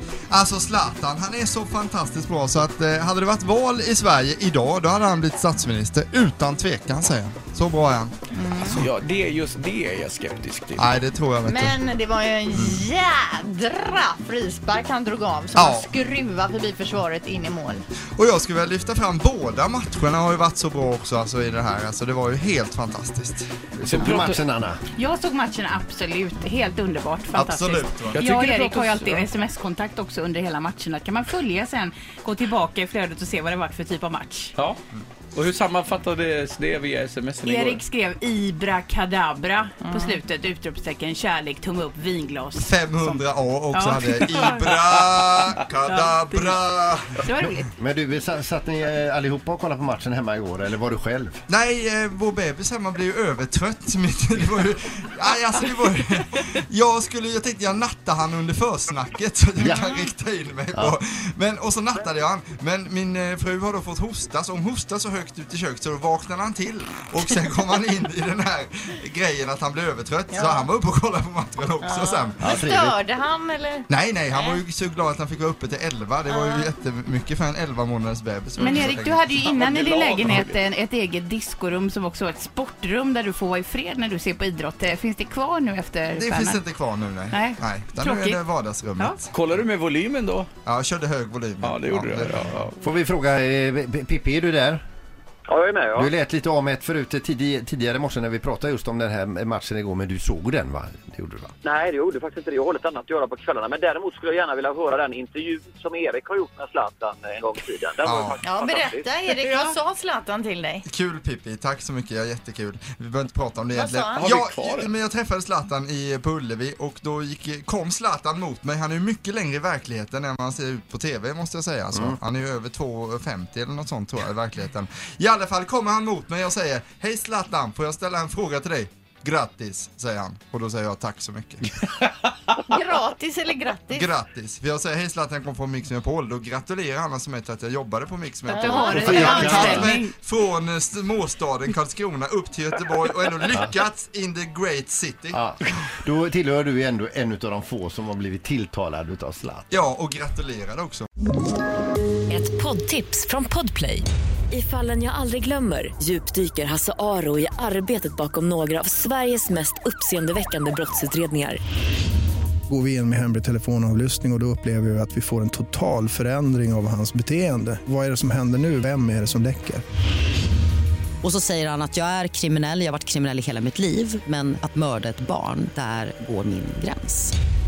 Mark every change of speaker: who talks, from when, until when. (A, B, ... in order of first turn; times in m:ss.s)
0:00.3-0:08.1 A
0:08.3-0:08.7 B
0:08.7-0:11.0 C
0:10.8-0:11.8 A
0:11.4-0:17.8 B
0:15.5-0:15.9 A
0:18.1-0:23.5 A
0:23.8-0:24.8 D
0:23.9-0:24.4 C
0:25.0-0:34.5 E
0:27.3-0:28.2 A
0:28.1-0:29.2 C
0:35.3-0:37.8 C
0:37.4-0:43.2 E
0:42.6-0:47.2 A
0:43.7-0:44.8 E
0:45.8-0:46.6 E
0:47.2-0:47.7 E
0:47.8-0:51.4 D
0:51.5-1:12.4 A
1:10.3-1:10.7 B
1:11.8-1:14.6 B
1:12.4-1:13.0 D
1:13.9-1:19.4 A
1:16.3-1:16.7 B
1:18.6-1:26.6 E
1:19.4-1:20.6 C
1:26.1-1:29.3 A
1:27.3-1:28.4 E
1:29.3-1:30.5 C
1:30.6-1:32.4 A
1:31.6-1:32.8 C
1:32.8-1:34.8 D
1:35.5-1:36.1 F
1:35.9-1:41.5 D
1:41.6-1:49.1 F
1:48.0-1:48.4 A
1:48.4-1:50.8 B
1:50.8-2:11.7 A
1:53.7-1:54.2 B
1:54.1-1:54.9 C
2:12.7-2:14.1 B
2:13.9-2:25.4 A
2:18.5-2:19.8 B
2:18.5-2:20.1 E
2:19.0-2:19.9 D
2:25.3-2:29.7 D
2:29.7-2:31.1 A
2:32.3-2:41.6 G
2:42.7-2:49.8 H
2:51.2-2:57.3 I